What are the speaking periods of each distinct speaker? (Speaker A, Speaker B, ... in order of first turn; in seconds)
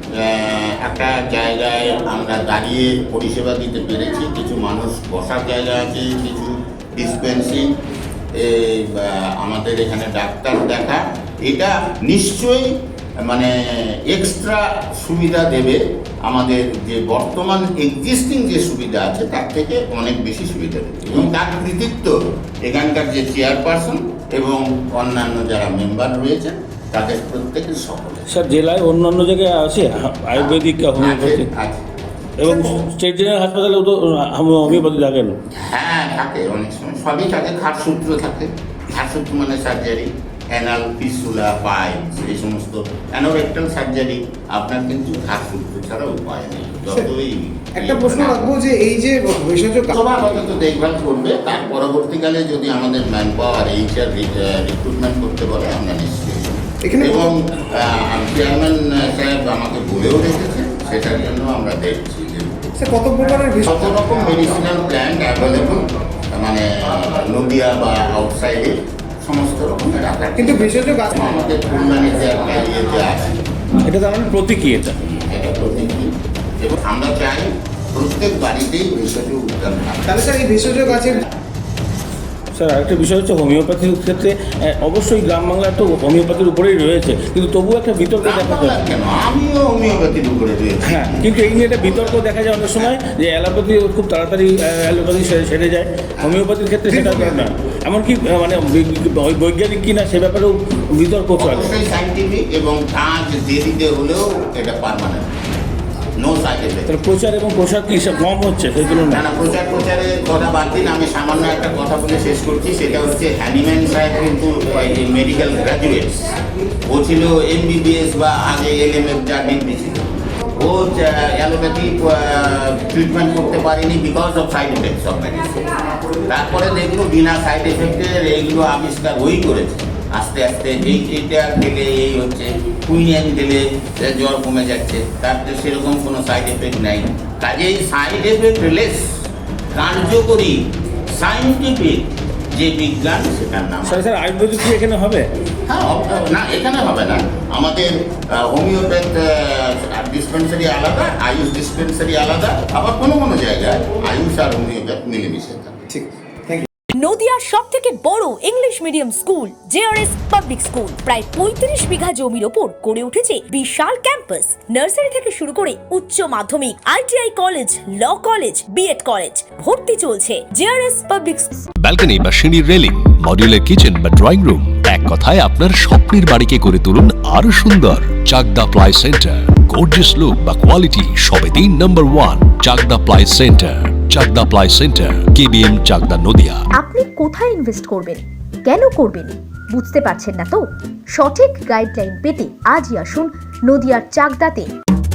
Speaker A: 0.2-7.7, 8.4-12.7, 13.2-13.5, 14.1-22.1, 22.6-28.2, 30.3-31.8, 35.7-48.4, 49.9-62.7, 63.6-65.8, 66.3-73.3, 75.0-80.3, 88.2-93.0, 96.2-97.5, 101.3-105.3, 106.2-107.0, 109.0-116.2, 116.9-120.0, 120.6-125.6, 126.3-139.0, 139.7-140.5, 141.1-144.1, 145.7-155.8
Speaker B: 28.3-31.4, 32.4-35.3, 73.9-75.0, 82.5-88.6, 90.8-101.6, 106.9-109.2, 143.9-145.3
Speaker C: 46.9-47.1, 47.7-50.4, 56.8-57.3, 62.8-64.0, 70.3-71.3, 80.0-81.2, 155.9-156.7
Speaker D: 156.9-171.5
Speaker E: 171.8-186.6
Speaker F: 186.7-194.7